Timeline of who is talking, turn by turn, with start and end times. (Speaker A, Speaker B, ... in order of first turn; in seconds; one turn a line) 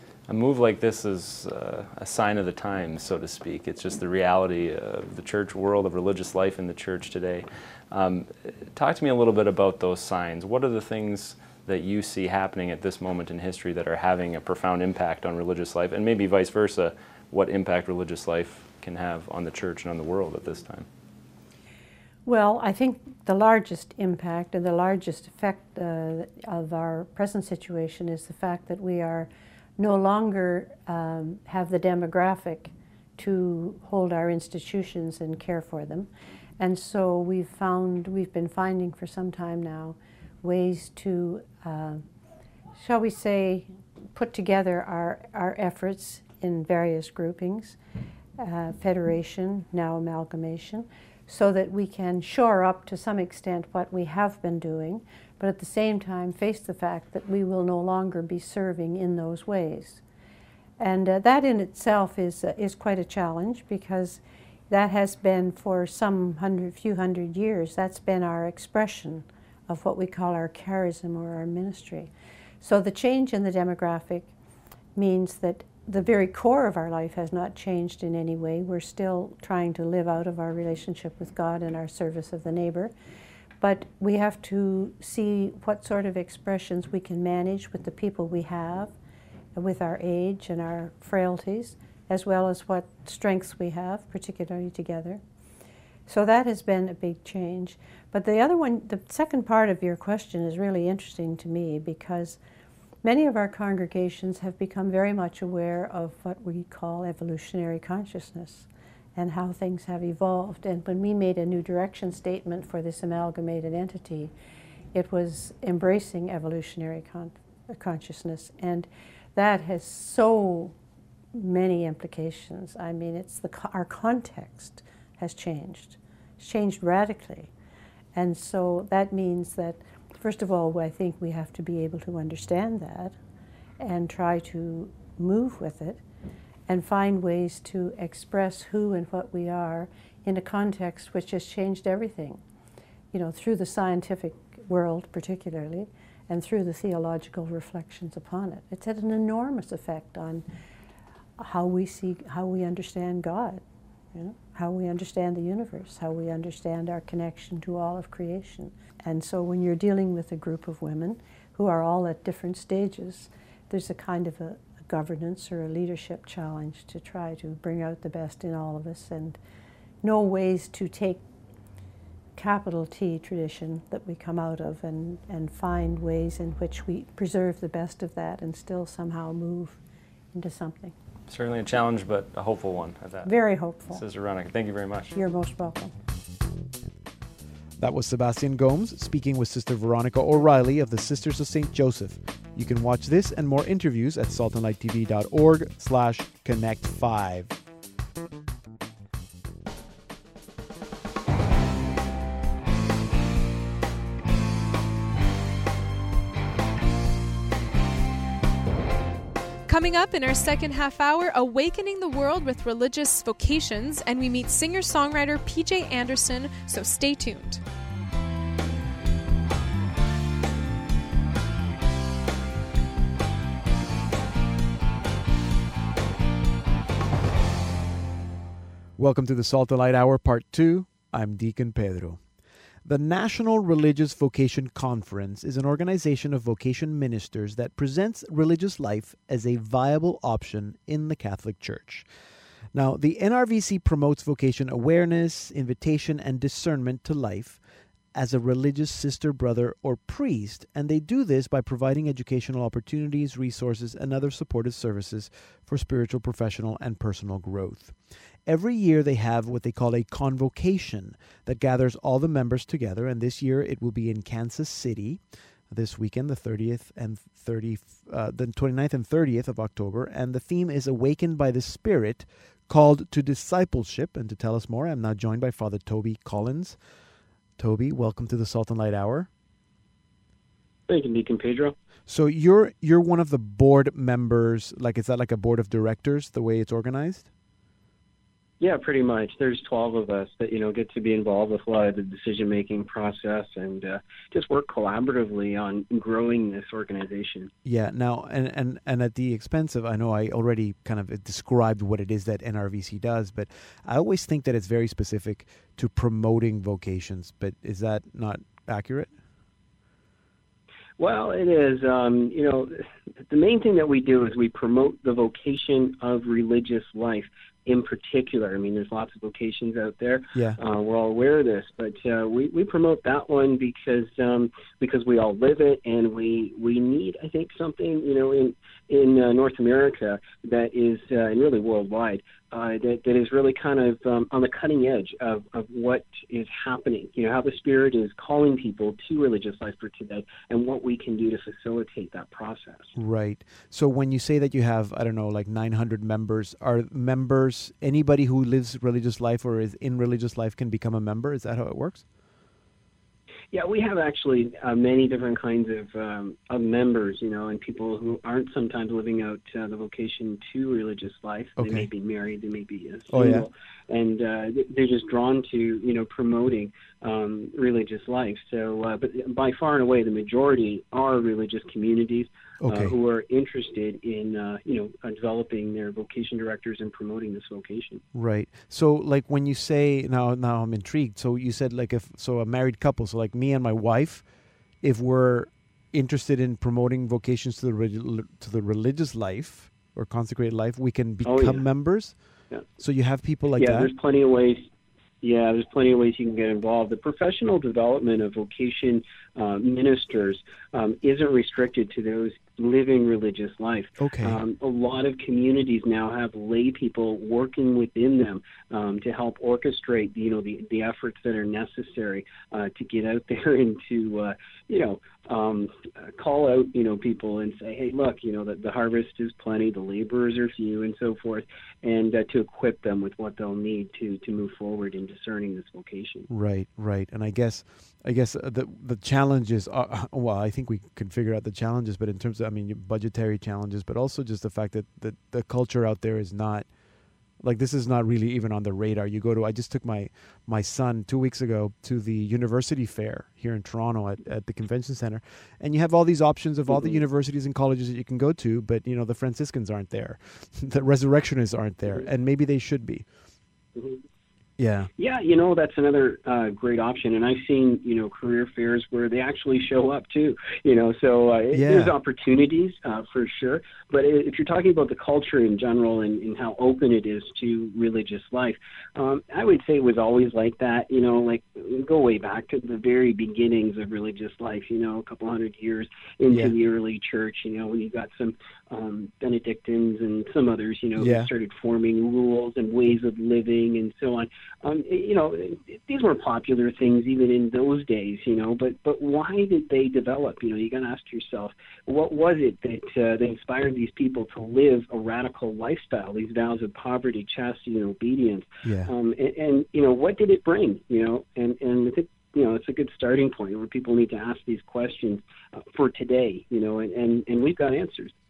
Speaker A: 0.3-20.9
Speaker B: 22.3-36.1
Speaker B: 36.6-42.0
Speaker B: 42.8-47.8
Speaker B: 48.4-60.0
Speaker B: 60.8-72.1
Speaker B: 72.6-74.3
Speaker B: 75.0-82.9
Speaker B: 83.6-88.9
Speaker B: 89.6-95.2
Speaker B: 96.1-102.4
Speaker B: 103.0-114.3
Speaker B: 114.9-120.8
Speaker B: 121.3-127.5
Speaker B: 128.2-133.2
Speaker B: 133.8-136.0
Speaker B: 136.7-142.4
Speaker B: 143.1-150.4
Speaker B: 151.4-153.6
Speaker B: 154.1-169.4
Speaker B: 170.0-171.2
Speaker B: 172.4-179.8
Speaker B: 180.3-180.9
Speaker A: 181.3-183.3
Speaker B: 183.2-184.0
Speaker A: 183.9-185.1
Speaker B: 185.1-185.9
Speaker C: 187.8-197.6
Speaker D: 209.7-217.6
Speaker C: 229.0-232.2
Speaker C: 232.8-242.1
Speaker C: 242.7-247.6
Speaker C: 248.2-257.9
Speaker C: 258.5-276.8
Speaker C: 277.6-279.3
Speaker E: 280.9-281.7
Speaker C: 282.1-287.3
Speaker E: 288.6-297.5
Speaker C: 297.6-309.1
Speaker E: 311.0-342.9
Speaker C: 320.3-320.6
Speaker C: 342.9-352.0
Speaker E: 353.5-378.0
Speaker C: 361.6-361.9
Speaker C: 363.1-363.5
Speaker C: 372.6-372.9
Speaker C: 378.1-384.2
Speaker C: 384.8-392.2
Speaker E: 391.2-391.6
Speaker C: 392.8-393.9
Speaker E: 393.6-394.7
Speaker E: 395.2-426.3
Speaker C: 404.0-404.4
Speaker C: 426.3-436.7
Speaker C: 437.4-453.1
Speaker E: 446.7-447.0
Speaker C: 454.6-454.9
Speaker E: 455.0-508.1
Speaker C: 461.5-461.9
Speaker C: 476.3-476.6
Speaker C: 481.0-481.3
Speaker C: 498.6-498.9